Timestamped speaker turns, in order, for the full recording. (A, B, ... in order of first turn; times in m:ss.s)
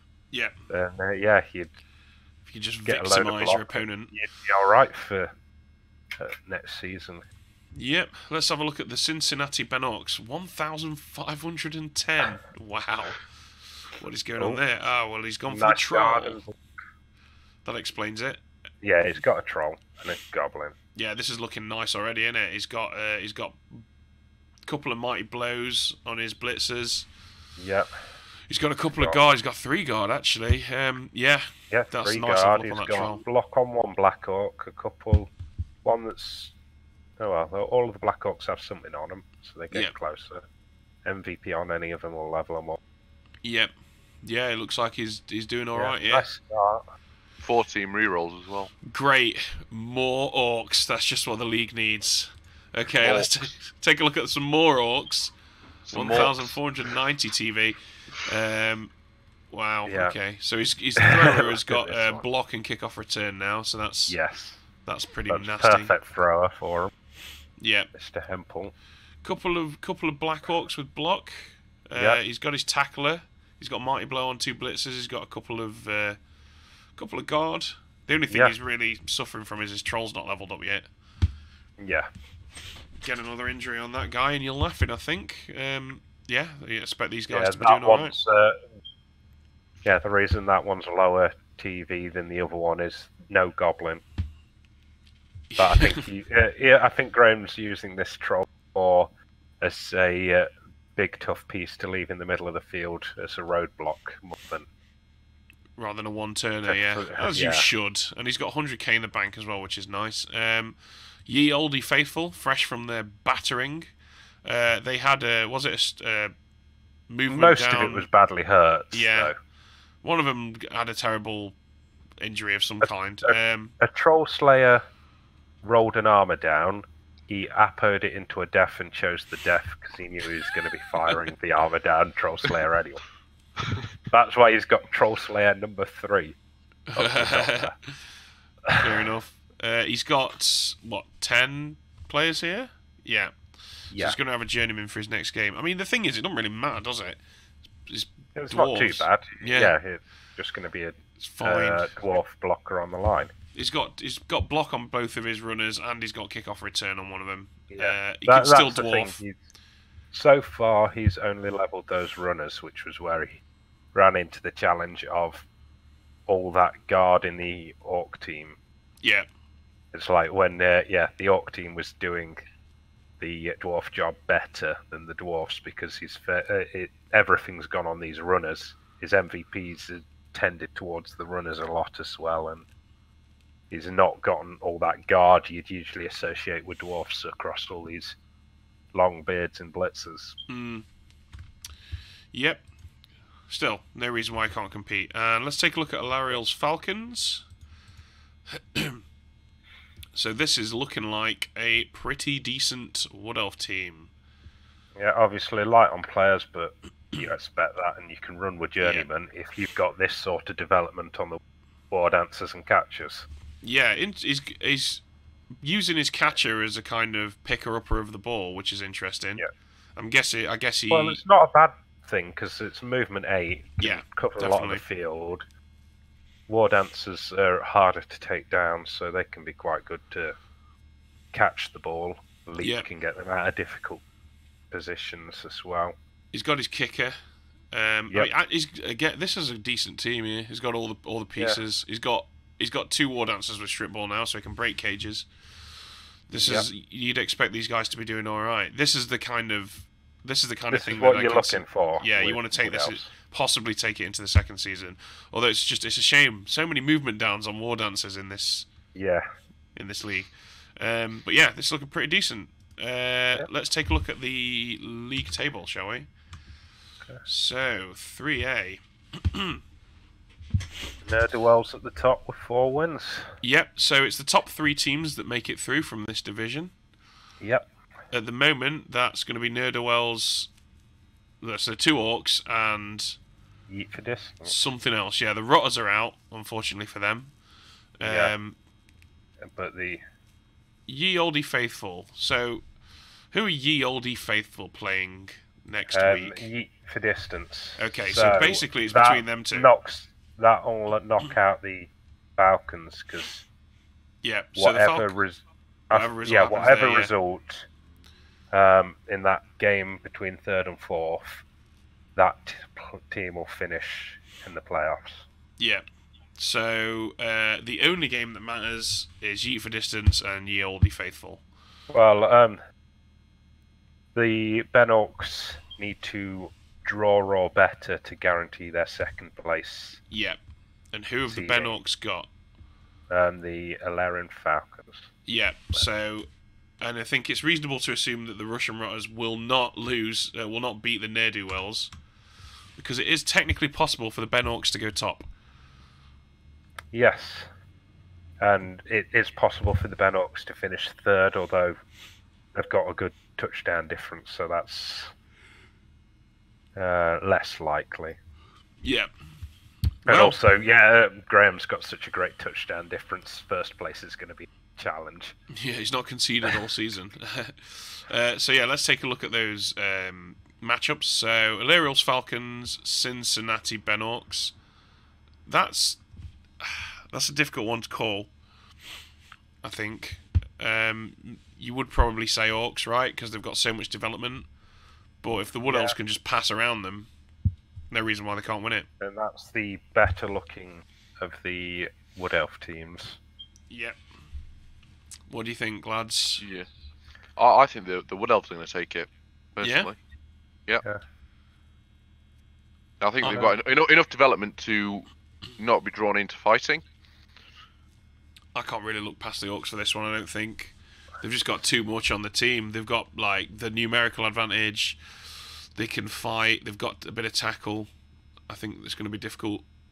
0:00.7-0:01.7 A
0:02.5-0:04.1 B
0:02.9-0:05.3 A
0:06.2-0:07.2 A
0:07.7-0:13.2 B
0:14.0-0:16.4 B
0:15.5-0:16.6 A
0:17.6-0:18.4 B
0:18.8-0:20.8 A
0:21.0-0:23.8 B
0:24.6-0:27.1 B
0:27.6-0:27.9 A
0:28.5-0:33.2 B
0:31.7-0:35.3 A
0:35.8-0:36.5 A
0:37.2-0:40.4 A
0:41.0-0:42.8 A
0:43.4-0:43.7 B
0:44.2-0:46.3 B
0:45.8-0:46.8 A
0:47.4-0:48.7 C
0:48.8-0:55.3 B
0:53.0-0:53.5 C
0:55.9-0:56.6 C
0:55.9-0:58.9 B
0:59.5-1:04.2 B
0:59.9-1:00.2 A
1:01.0-1:02.2 A
1:04.1-1:04.6 A
1:04.8-1:05.9 B
1:05.3-1:06.9 A
1:07.6-1:07.9 B
1:07.9-1:08.7 A
1:09.2-1:16.2 B
1:17.0-1:20.9 B
1:21.8-1:22.1 A
1:23.0-1:28.2 B
1:27.3-1:28.6 A
1:29.8-1:34.0 A
1:35.5-1:36.0 B
1:35.6-1:39.1 A
1:39.6-1:44.7 A
1:45.8-1:50.8 B
1:46.6-1:47.7 A
1:51.3-1:53.9 B
1:54.4-1:56.3 B
1:57.1-1:58.0 B
1:57.3-1:59.4 A
1:58.9-1:59.3 B
2:00.0-2:01.6 B
2:02.2-2:03.8 B
2:02.8-2:04.8 A
2:05.6-2:13.0 A
2:14.1-2:16.4 A
2:16.9-2:18.0 B
2:17.0-2:17.7 A
2:18.8-2:23.3 B
2:23.9-2:24.2 A
2:23.9-2:27.2 B
2:27.9-2:29.8 B
2:28.4-2:33.3 A
2:31.2-2:31.9 B
2:33.5-2:39.2 B
2:37.7-2:39.4 A
2:40.1-2:43.4 A
2:43.9-2:45.5 A
2:46.3-2:48.6 A
2:49.0-2:49.3 B
2:49.9-2:52.4 A
2:53.2-3:02.6 A
3:03.7-3:08.2 A
3:08.9-3:10.4 A
3:10.5-3:10.8 B
3:12.3-3:12.6 B
3:13.5-3:17.4 B
3:18.5-3:19.0 B
3:20.2-3:24.1 B
3:25.0-3:31.4 A
3:28.8-3:29.1 B
3:31.9-3:33.3 A
3:33.6-3:35.0 B
3:35.6-3:41.2 B
3:40.9-3:45.4 A
3:43.8-3:44.8 B
3:46.5-3:50.4 A
3:51.3-3:54.0 A
3:52.6-3:52.9 B
3:54.7-3:56.0 A
3:56.3-3:57.2 B
3:57.7-4:05.3 B
4:06.3-4:18.7 B
4:06.4-4:06.7 A
4:10.7-4:13.1 A
4:19.0-4:19.3 A
4:19.8-4:26.1 B
4:27.2-4:29.6 B
4:31.0-4:33.4 A
4:33.4-4:36.7 B
4:37.4-4:37.7 A
4:38.1-4:40.5 B
4:41.4-4:43.2 B
4:43.7-4:44.5 A
4:44.4-4:47.3 B
4:48.0-4:48.6 B
4:48.0-4:48.3 A
4:49.4-4:50.0 A
4:50.9-4:52.6 B
4:53.3-4:56.5 B
4:55.9-5:03.4 A
4:57.8-4:59.7 B
5:04.2-5:05.1 B
5:04.6-5:07.7 A
5:05.9-5:07.1 B
5:08.5-5:11.4 A
5:12.2-5:15.2 A
5:15.6-5:15.8 B
5:16.4-5:21.4 B
5:21.9-5:22.6 A
5:24.2-5:30.0 A
5:30.1-5:30.4 B
5:30.9-5:32.3 B
5:31.3-5:31.8 A
5:33.1-5:35.1 A
5:35.3-5:36.3 B
5:36.8-5:41.9 B
5:42.8-5:45.3 B
5:46.9-5:47.5 A
5:48.4-5:51.8 A
5:52.5-5:55.1 A
5:56.8-5:58.2 A
5:58.8-5:59.1 B
6:00.0-6:00.4 B
6:00.1-6:05.3 A
6:05.5-6:14.5 B
6:15.5-6:16.0 B
6:16.6-6:18.3 B
6:19.6-6:24.5 B
6:25.2-6:27.1 B
6:25.7-6:26.0 A
6:27.9-6:28.9 B
6:29.0-6:33.2 A
6:33.7-6:34.0 B
6:35.3-6:36.4 B
6:36.4-6:36.7 C
6:37.4-6:40.0 C
6:39.6-6:39.9 B
6:43.0-6:46.8 C
6:43.2-6:43.5 B
6:48.6-6:55.0 B
6:55.8-6:57.9 B
6:58.5-6:59.6 B